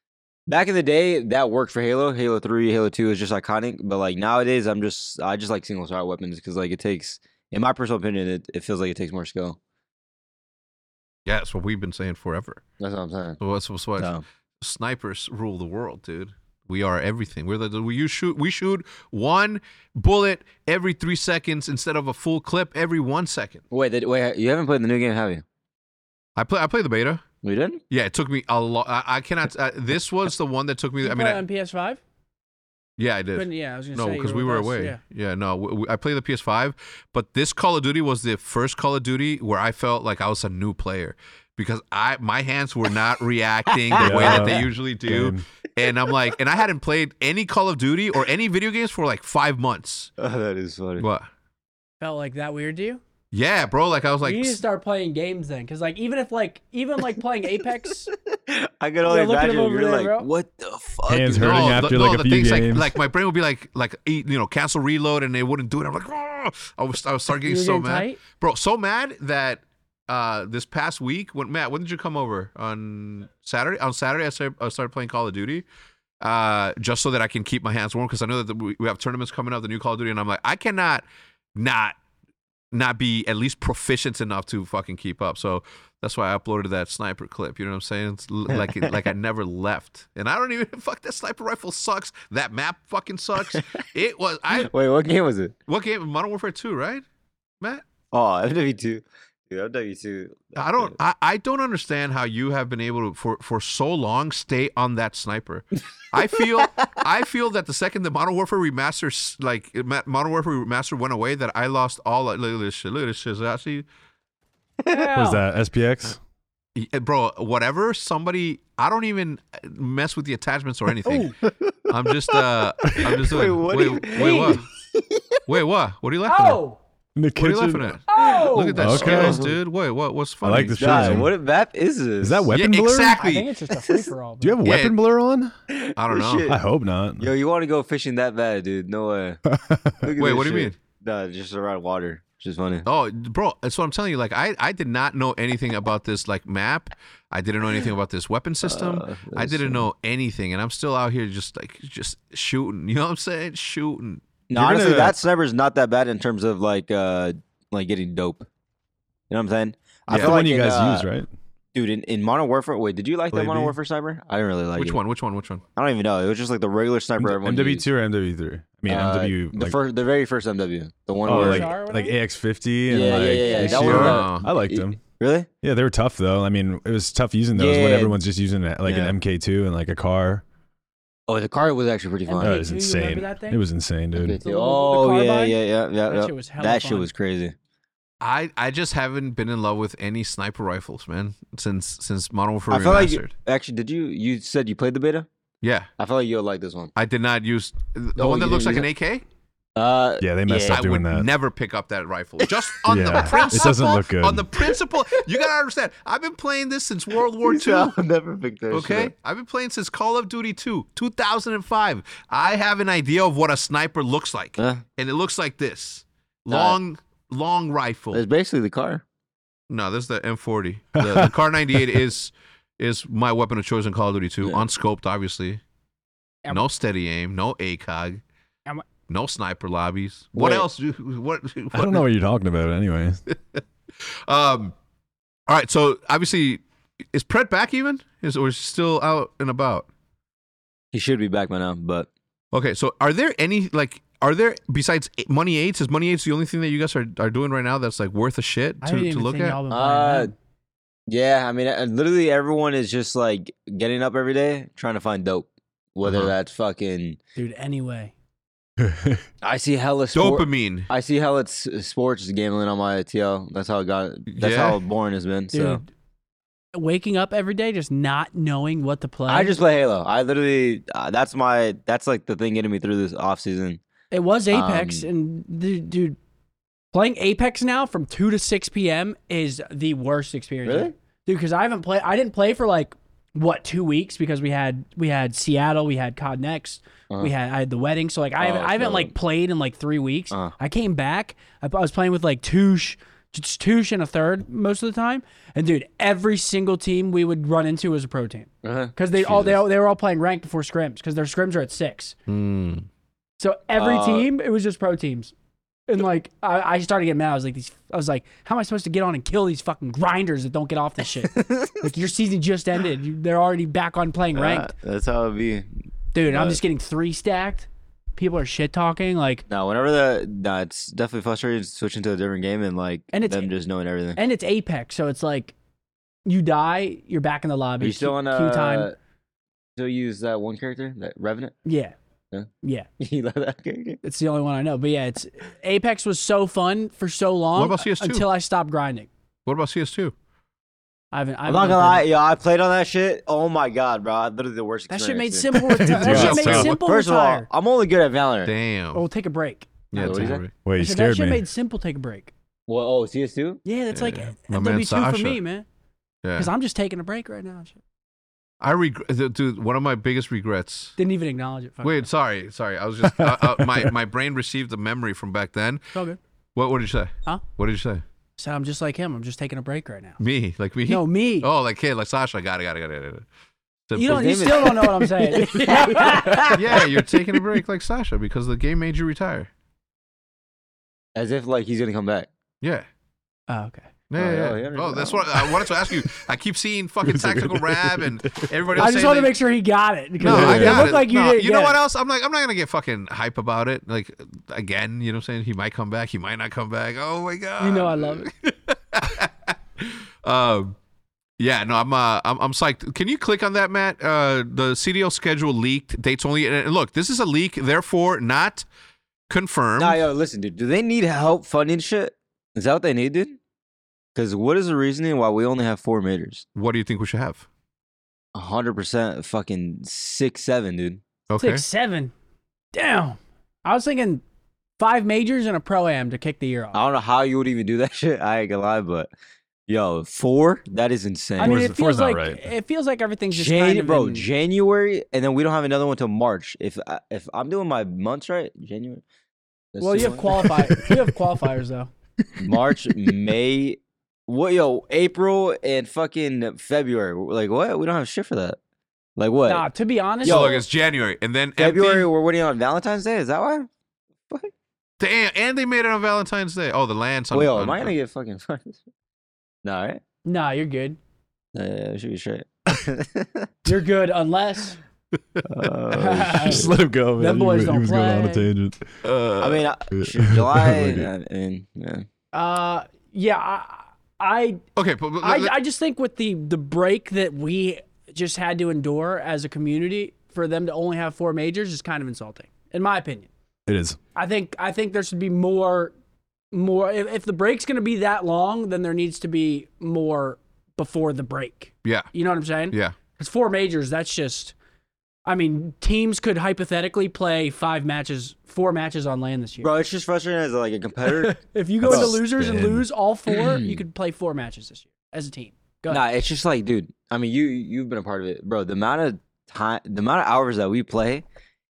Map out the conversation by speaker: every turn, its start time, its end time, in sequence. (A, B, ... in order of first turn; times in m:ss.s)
0:00.5-0:09.6 A
0:11.2-0:12.6 B
0:12.8-0:13.4 A
0:13.4-0:23.6 B
0:14.0-0:14.2 A
0:23.7-0:25.4 A
0:26.4-0:27.2 B
0:27.4-0:27.8 A
0:27.9-0:31.4 B
0:31.0-0:32.0 C
0:33.0-0:50.1 B
0:33.4-0:35.0 C
0:43.7-0:44.6 A
0:44.0-0:45.4 D
0:50.2-0:51.0 A
0:51.0-0:51.3 B
0:52.0-0:53.0 C
0:53.3-0:54.6 B
0:54.2-0:58.1 C
0:58.2-1:01.9 A
0:59.0-1:00.3 C
1:01.1-1:02.9 D
1:01.3-1:15.6 B
1:07.4-1:08.2 C
1:16.2-1:21.0 B
1:21.5-1:22.0 B
1:22.7-1:34.7 B
1:28.5-1:29.0 A
1:34.5-1:35.5 A
1:35.7-1:37.0 B
1:38.1-1:40.9 A
1:40.5-1:53.8 B
1:54.8-1:55.4 C
1:55.1-1:56.2 D
1:56.7-2:01.4 B
2:01.0-2:01.4 C
2:01.4-2:02.4 A
2:01.9-2:04.6 B
2:03.0-2:05.4 A
2:04.1-2:04.6 C
2:05.4-2:06.6 B
2:06.3-2:06.8 C
2:07.2-2:07.9 D
2:07.4-2:11.3 B
2:08.1-2:08.8 C
2:08.6-2:09.5 D
2:08.9-2:09.5 A
2:10.4-2:11.3 D
2:10.7-2:12.5 A
2:12.2-2:13.1 D
2:12.5-2:13.5 B
2:13.2-2:14.6 C
2:13.8-2:14.1 A
2:14.4-2:15.5 D
2:14.6-2:15.0 B
2:15.7-2:16.6 A
2:16.0-2:16.5 B
2:16.5-2:17.3 D
2:17.2-2:19.4 A
2:19.5-2:20.1 D
2:20.0-2:22.8 A
2:20.2-2:20.8 B
2:22.8-2:34.2 B
2:28.6-2:29.9 A
2:34.5-2:38.5 A
2:34.5-2:35.2 D
2:39.3-2:41.1 A
2:40.1-2:40.4 B
2:40.1-2:41.3 D
2:41.7-2:45.0 A
2:43.3-2:43.7 D
2:44.7-2:45.6 B
2:45.8-2:47.8 A
2:47.2-2:49.7 D
2:48.9-2:51.7 A
2:51.2-2:52.2 C
2:51.2-2:55.0 D
2:52.9-2:55.5 A
2:52.9-2:54.2 C
2:53.7-2:54.4 B
2:55.6-3:00.4 D
2:57.5-2:58.2 A
2:58.8-2:59.1 A
3:01.3-3:02.6 A
3:02.2-3:03.6 C
3:02.4-3:04.4 D
3:04.1-3:07.5 A
3:04.4-3:07.1 C
3:08.2-3:13.3 B
3:12.7-3:15.3 A
3:15.6-3:15.9 B
3:16.0-3:16.9 A
3:17.0-3:19.2 B
3:18.2-3:18.9 A
3:19.8-3:20.8 A
3:20.2-3:21.3 D
3:20.6-3:27.9 B
3:22.4-3:23.8 A
3:22.9-3:24.5 D
3:27.4-3:29.1 A
3:28.7-3:38.2 B
3:34.6-3:34.8 A
3:36.5-3:36.8 A
3:38.1-3:39.0 A
3:39.7-3:45.6 B
3:41.0-3:42.0 D
3:46.5-3:48.2 B
3:49.1-3:52.0 B
3:50.3-3:50.7 A
3:51.7-3:53.2 D
3:53.3-3:54.7 B
3:55.5-3:56.6 B
3:57.1-3:59.9 B
4:00.9-4:02.1 A
4:02.5-4:09.6 B
4:08.8-4:10.3 C
4:09.7-4:10.3 A
4:11.1-4:17.2 A
4:16.0-4:16.3 B
4:17.4-4:18.1 C
4:18.8-4:19.2 D
4:19.4-4:25.8 A
4:20.1-4:20.9 B
4:24.3-4:24.8 B
4:25.5-4:25.9 C
4:26.7-4:29.5 C
4:29.3-4:33.8 A
4:34.1-4:36.2 C
4:34.5-4:35.1 A
4:36.9-5:02.1 C
4:40.6-4:40.9 A
4:48.4-4:49.1 A
4:58.6-4:59.6 A
5:02.3-5:02.9 B
5:03.4-5:05.3 C
5:03.8-5:04.3 A
5:05.9-5:14.7 C
5:11.2-5:11.9 A
5:14.3-5:15.7 A
5:16.1-5:19.4 C
5:16.3-5:16.6 A
5:19.5-5:24.2 A
5:23.1-5:23.5 C
5:24.2-5:25.5 C
5:26.2-5:28.9 C
5:27.8-5:28.9 A
5:29.8-5:31.5 A
5:31.6-5:32.0 C
5:32.6-5:32.9 C
5:33.0-5:34.0 A
5:34.0-5:39.1 C
5:37.6-5:38.2 B
5:39.4-5:40.1 B
5:41.1-5:42.1 C
5:41.4-5:48.5 A
5:44.9-5:47.5 C
5:45.5-5:46.7 D
5:45.9-5:46.8 B
5:48.4-5:49.0 B
5:48.9-5:52.3 C
5:49.9-5:50.5 B
5:49.9-5:50.4 A
5:50.6-5:51.4 D
5:52.7-5:53.6 A
5:53.6-5:55.6 C
5:53.9-5:55.4 B
5:56.2-5:56.5 B
5:56.4-5:57.8 C
5:58.6-6:01.0 B
6:01.0-6:02.1 C
6:01.8-6:05.9 B
6:03.0-6:03.9 D
6:05.9-6:06.2 C
6:06.6-6:08.0 B
6:08.4-6:10.2 C
6:10.2-6:13.2 B
6:10.9-6:11.5 C
6:13.9-6:14.8 B
6:13.9-6:16.6 C
6:14.0-6:17.0 A
6:16.5-6:19.5 B
6:21.1-6:22.3 A
6:22.6-6:22.9 B
6:23.5-6:23.9 C
6:24.1-6:29.3 B
6:24.2-6:25.7 A
6:27.0-6:28.5 D
6:28.8-6:31.8 C
6:30.2-6:30.9 D
6:30.2-6:40.7 B
6:37.6-6:38.3 C
6:41.4-6:48.6 B
6:49.3-6:50.0 B
6:49.8-6:53.4 A
6:54.1-6:56.4 A
6:56.5-6:57.5 B
6:58.3-7:01.0 A
7:01.3-7:01.6 B
7:01.4-7:02.1 C
7:02.7-7:04.2 C
7:04.8-7:06.8 C
7:06.7-7:09.1 A
7:09.7-7:11.7 A
7:11.4-7:14.3 C
7:11.4-7:12.4 D
7:13.3-7:19.0 A
7:19.7-7:20.5 A
7:19.8-7:21.9 C
7:20.3-7:21.0 D
7:22.4-7:28.6 A
7:29.2-7:29.7 A
7:29.4-7:30.6 C
7:30.2-7:30.6 A
7:30.2-7:32.1 B
7:31.6-7:33.7 A
7:35.0-7:37.9 B
7:37.3-7:38.8 A
7:39.6-7:40.0 A
7:40.2-7:41.0 C
7:41.5-7:43.5 A
7:43.6-7:44.8 C
7:45.4-7:46.7 A
7:45.9-7:48.5 C
7:46.4-7:48.9 D
7:49.0-7:49.7 B
7:49.4-7:52.0 A
7:49.9-7:51.1 D
7:52.3-7:54.6 C
7:54.8-7:55.5 B
7:55.2-8:03.3 C
8:03.7-8:04.0 D
8:04.1-8:05.9 C
8:06.5-8:14.5 C
8:11.8-8:12.1 B
8:15.2-8:19.7 C
8:19.6-8:22.2 A
8:21.0-8:26.0 C
8:21.8-8:22.8 D
8:23.3-8:23.8 A
8:25.9-8:31.2 A